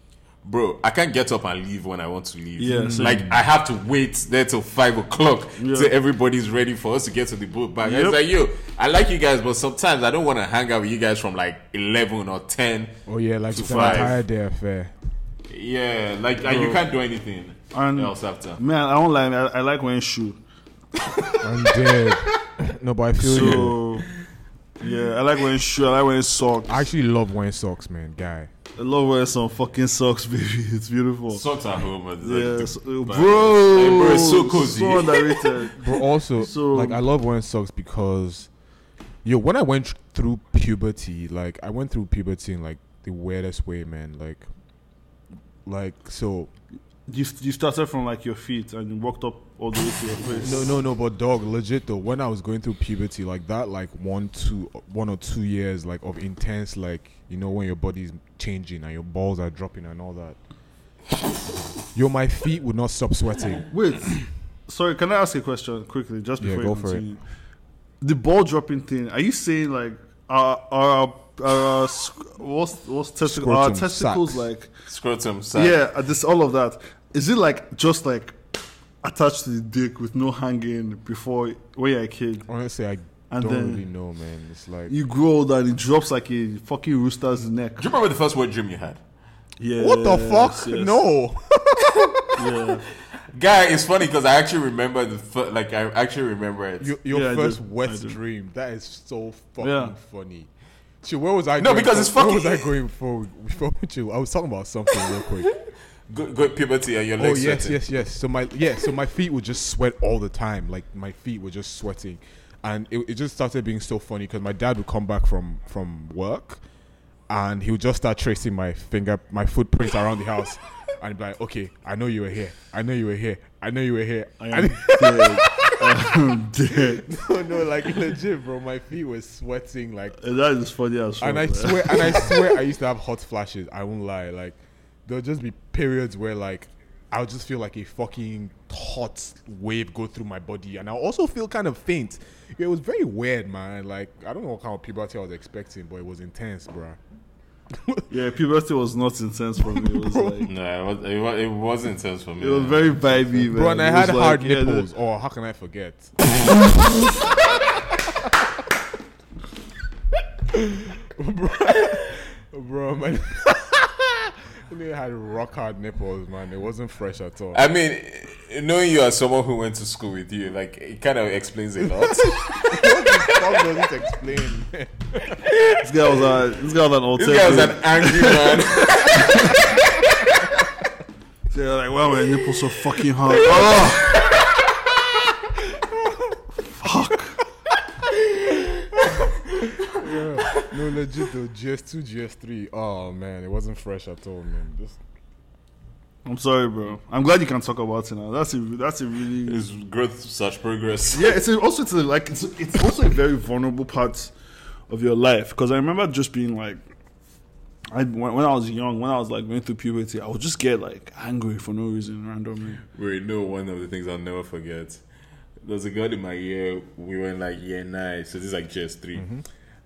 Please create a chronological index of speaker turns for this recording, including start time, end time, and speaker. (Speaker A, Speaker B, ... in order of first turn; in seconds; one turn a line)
Speaker A: 0.4-12.9
Speaker B: 2.6-3.2
Speaker C: 2.7-3.4
Speaker B: 5.6-5.9
Speaker B: 7.8-8.2
Speaker C: 13.1-14.9
Speaker A: 13.5-14.1
Speaker B: 13.5-14.1
Speaker A: 15.5-18.6
Speaker B: 16.4-16.8
Speaker B: 17.7-20.4
Speaker C: 21.4-23.8
Speaker B: 23.2-24.1
Speaker A: 23.4-23.6
Speaker B: 24.8-26.9
Speaker C: 26.7-28.5
Speaker B: 28.8-31.4
Speaker A: 31.3-35.5
Speaker B: 32.2-37.0
Speaker C: 35.8-38.5
Speaker C: 39.2-44.5
Speaker C: 45.6-46.5
Speaker B: 47.1-50.7
Speaker C: 50.4-60.4
Speaker C: 61.9-63.6
Speaker B: 63.7-67.2
Speaker C: 66.4-67.0
Speaker B: 68.0-74.7
Speaker C: 73.2-74.5
Speaker A: 74.9-75.8
Speaker B: 75.5-78.4
Speaker B: 79.0-82.5
Speaker C: 82.5-84.9
Speaker B: 83.3-83.8
Speaker B: 84.9-87.8
Speaker A: 87.8-89.0
Speaker B: 89.6-91.0
Speaker C: 89.8-92.2
Speaker B: 92.3-92.8
Speaker A: 93.3-96.9
Speaker C: 96.8-100.5
Speaker B: 97.1-98.2
Speaker B: 99.6-99.9
Speaker C: 101.0-105.5
Speaker A: 101.6-102.7
Speaker A: 105.1-105.5
Speaker A: 106.1-107.8
Speaker C: 107.2-116.6
Speaker C: 117.3-125.7
Speaker B: 124.4-127.0
Speaker C: 126.7-130.2
Speaker B: 130.2-132.3
Speaker C: 131.2-147.0
Speaker C: 147.7-148.0
Speaker B: 148.1-150.5
Speaker C: 149.7-150.3
Speaker A: 150.4-153.0
Speaker B: 152.4-154.8
Speaker C: 153.4-156.1
Speaker C: 157.2-158.3
Speaker C: 160.5-167.6
Speaker A: 167.5-173.6
Speaker C: 172.0-175.4
Speaker A: 175.4-175.8
Speaker B: 175.8-179.6
Speaker A: 177.2-180.1
Speaker B: 181.5-184.2
Speaker A: 183.3-184.8
Speaker C: 186.0-186.3
Speaker B: 186.7-187.4
Speaker C: 189.8-195.0
Speaker B: 196.2-199.6
Speaker A: 199.4-201.3
Speaker B: 201.1-204.3
Speaker B: 204.9-206.8
Speaker B: 207.9-212.8
Speaker A: 212.8-215.0
Speaker A: 215.6-219.3
Speaker C: 219.2-219.4